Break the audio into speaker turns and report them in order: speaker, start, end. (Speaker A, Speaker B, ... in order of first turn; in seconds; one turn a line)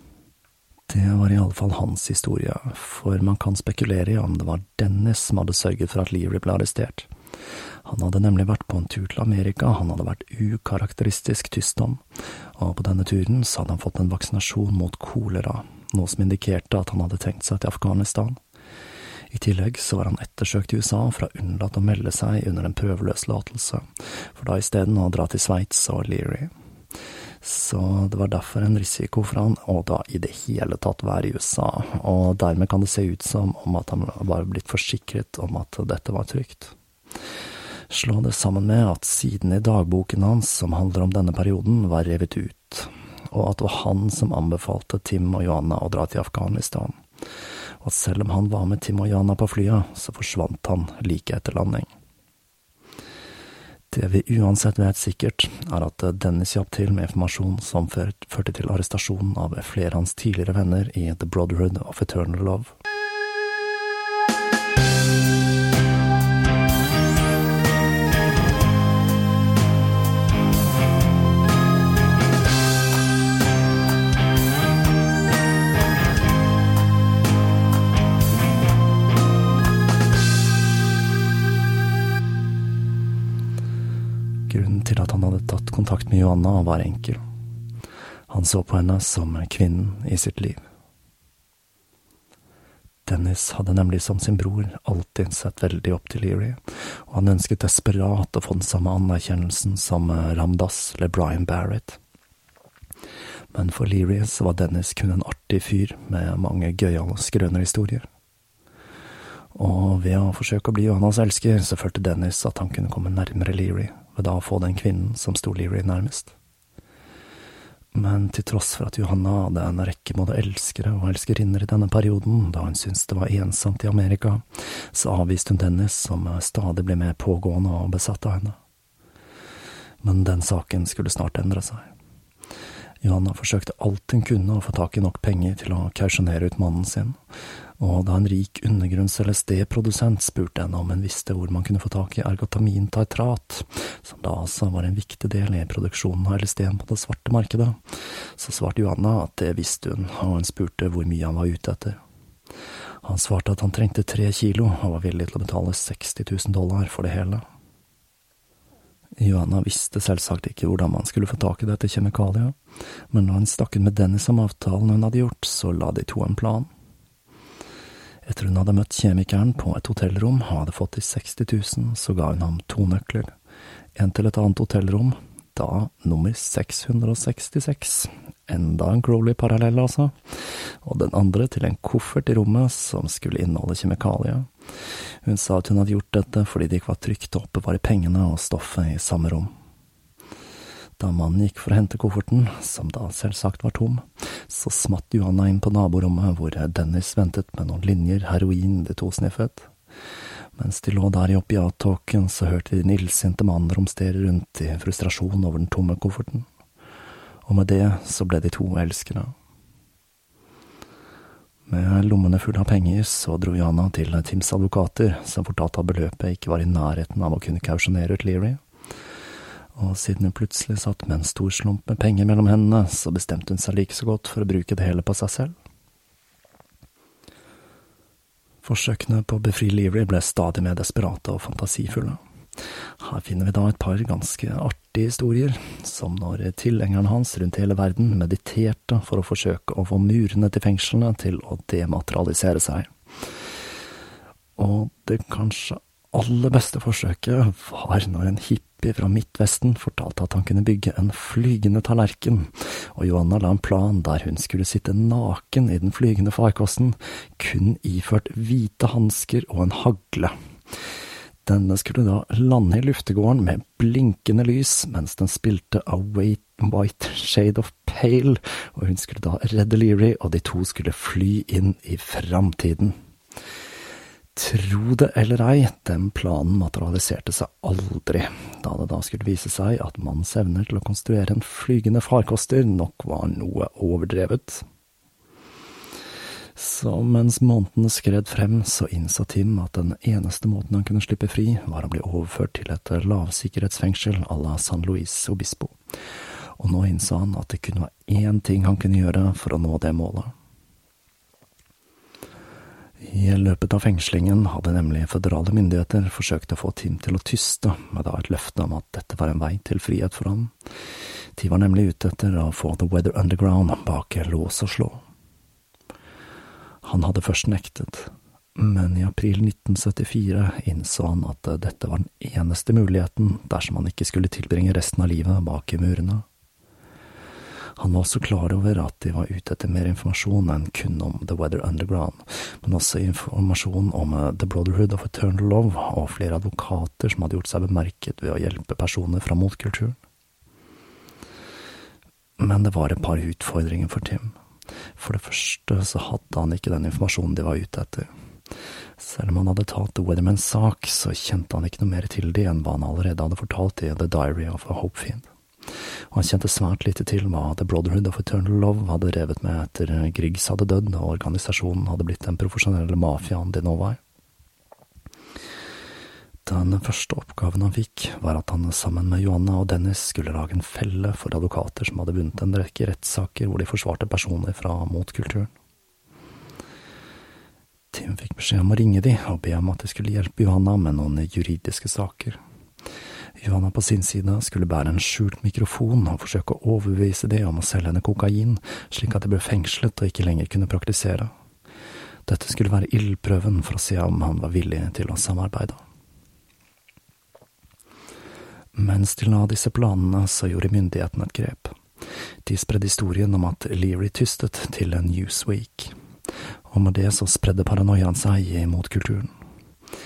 Speaker A: 0.9-7.1
Speaker A: 7.8-12.0
Speaker A: 12.5-18.4
Speaker A: 19.3-26.5
Speaker A: 27.4-36.7
Speaker A: 37.9-47.0
Speaker A: 47.8-51.9
Speaker A: 53.9-62.7
Speaker A: 84.5-87.2
Speaker A: 88.3-90.6
Speaker A: 93.0-102.0
Speaker A: 103.5-108.0
Speaker A: 109.5-116.3
Speaker A: 117.9-128.6
Speaker A: 130.0-131.9
Speaker A: 133.0-137.2
Speaker A: 137.8-147.8
Speaker A: 148.3-152.0
Speaker A: 153.0-157.4
Speaker A: 159.2-162.6
Speaker A: 163.1-166.7
Speaker A: 168.2-173.3
Speaker A: 173.9-180.1
Speaker A: 180.8-184.5
Speaker A: 185.2-189.5
Speaker A: 191.0-199.7
Speaker A: 200.6-206.5
Speaker A: 207.4-209.3
Speaker A: 211.7-218.6
Speaker A: 219.8-225.5
Speaker A: 228.6-232.2
Speaker A: 233.0-242.9
Speaker A: 244.6-260.3
Speaker A: 261.4-272.9
Speaker A: 274.3-284.6
Speaker A: 286.6-295.8
Speaker A: 296.6-300.3
Speaker A: 303.0-310.5
Speaker A: 311.3-315.0
Speaker A: 316.8-326.2
Speaker A: 327.8-340.0
Speaker A: 342.4-344.4
Speaker A: 345.0-348.1
Speaker A: 349.0-355.3
Speaker A: 356.1-364.0
Speaker A: 366.4-375.5
Speaker A: 377.9-382.4
Speaker A: 383.4-391.3
Speaker A: 392.2-395.8
Speaker A: 398.7-401.7
Speaker A: 402.4-405.9
Speaker A: 406.7-409.3